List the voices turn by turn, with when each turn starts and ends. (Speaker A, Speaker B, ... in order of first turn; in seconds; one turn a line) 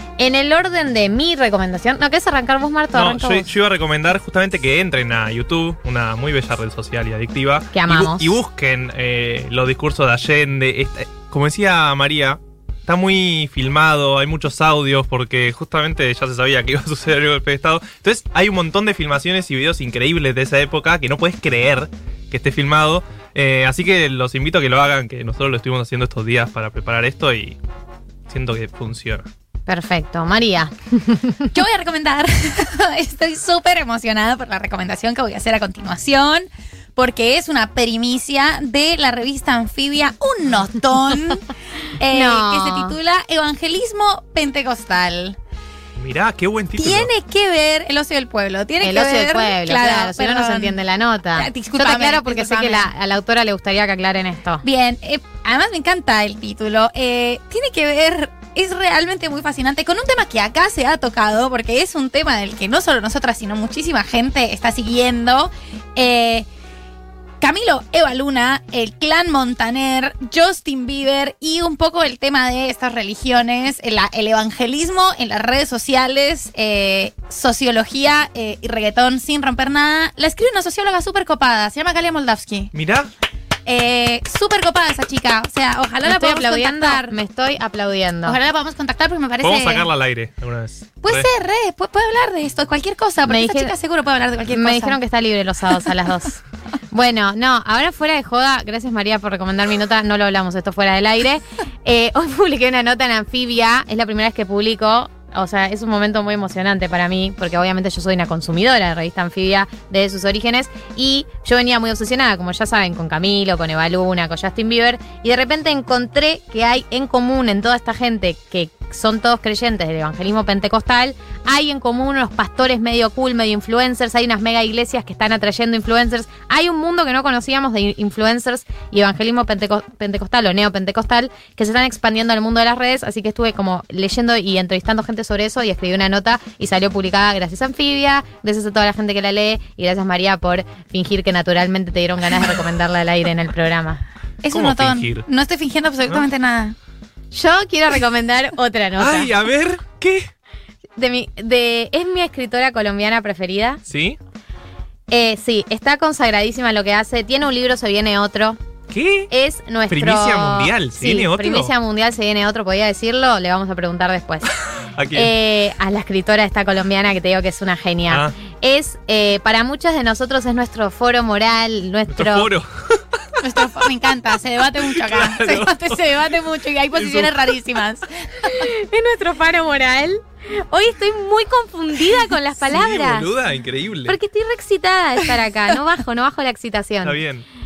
Speaker A: 0.2-3.5
Speaker B: 2.9-27.6
Speaker A: 7.7-8.4
Speaker B: 28.3-29.3
Speaker A: 29.7-31.4
Speaker C: 31.5-45.4
Speaker A: 42.1-43.0
Speaker B: 46.0-47.1
Speaker C: 46.8-50.8
Speaker A: 48.8-54.6
Speaker C: 51.3-52.9
Speaker C: 54.6-66.5
Speaker C: 67.4-82.7
Speaker B: 82.7-83.1
Speaker C: 83.7-87.2
Speaker A: 86.0-88.4
Speaker C: 88.2-89.9
Speaker B: 89.4-91.3
Speaker C: 91.0-95.0
Speaker A: 93.3-93.7
Speaker A: 94.5-96.4
Speaker A: 96.9-144.0
Speaker C: 144.4-146.8
Speaker B: 144.5-145.3
Speaker A: 147.3-149.3
Speaker B: 149.0-150.3
Speaker A: 151.0-153.8
Speaker B: 153.9-154.2
Speaker A: 155.1-158.6
Speaker B: 158.9-159.3
Speaker A: 159.3-164.5
Speaker B: 159.9-161.7
Speaker B: 164.9-165.3
Speaker A: 165.1-172.5
Speaker B: 172.1-173.3
Speaker C: 173.4-178.6
Speaker B: 174.8-176.0
Speaker B: 177.0-177.3
Speaker A: 178.4-183.3
Speaker B: 182.6-184.2
Speaker A: 184.1-187.2
Speaker B: 187.0-187.4